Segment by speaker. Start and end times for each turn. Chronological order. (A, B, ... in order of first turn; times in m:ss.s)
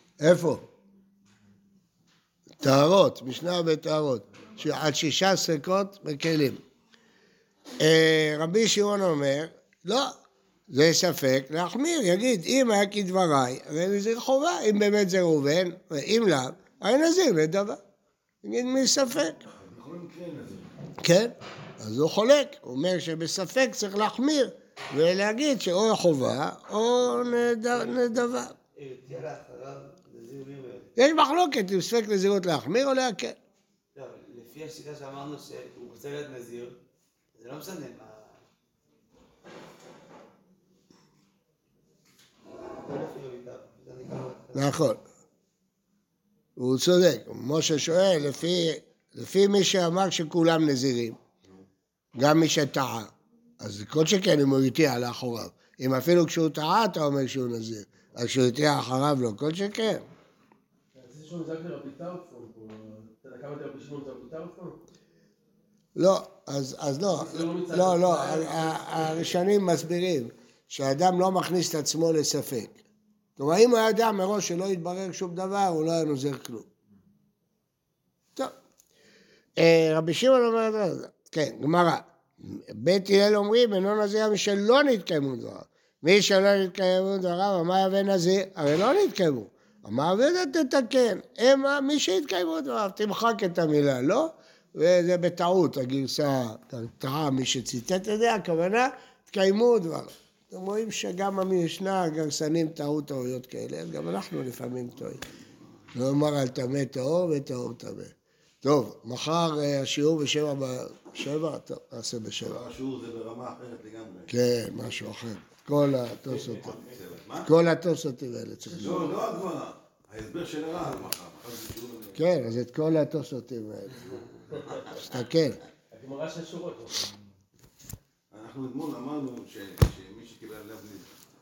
0:00.2-0:00.6 A
0:02.6-0:06.6 A
0:07.8-0:10.1 A
0:10.7-0:17.8 A
0:18.4-0:19.5 A
0:19.5-0:20.7 B
0:21.0-0:28.5 A
0:27.7-0:28.1 C
0:28.8-0:30.9 C
0:31.0-0:33.4 A
0:33.9-0:36.8 C
0:37.4-0:38.4 C
0:42.8-0:44.8 C
0:44.6-0:45.0 A
0:46.6-0:51.2 A
0:52.2-1:00.0 A
1:01.0-1:04.8 D
1:06.0-1:12.8 A
1:07.1-1:09.4 D
1:13.4-1:16.7 A
1:19.6-1:45.2 A
1:45.9-1:52.6 A
1:52.4-1:54.3 B
1:54.3-1:56.8 A
1:56.3-1:57.5 B
1:57.4-1:59.1 A
1:58.6-1:59.1 D
1:58.8-2:02.3 B
2:02.2-2:04.2 A
2:05.0-2:05.6 A
2:05.9-2:07.3 D
2:08.3-2:11.1 B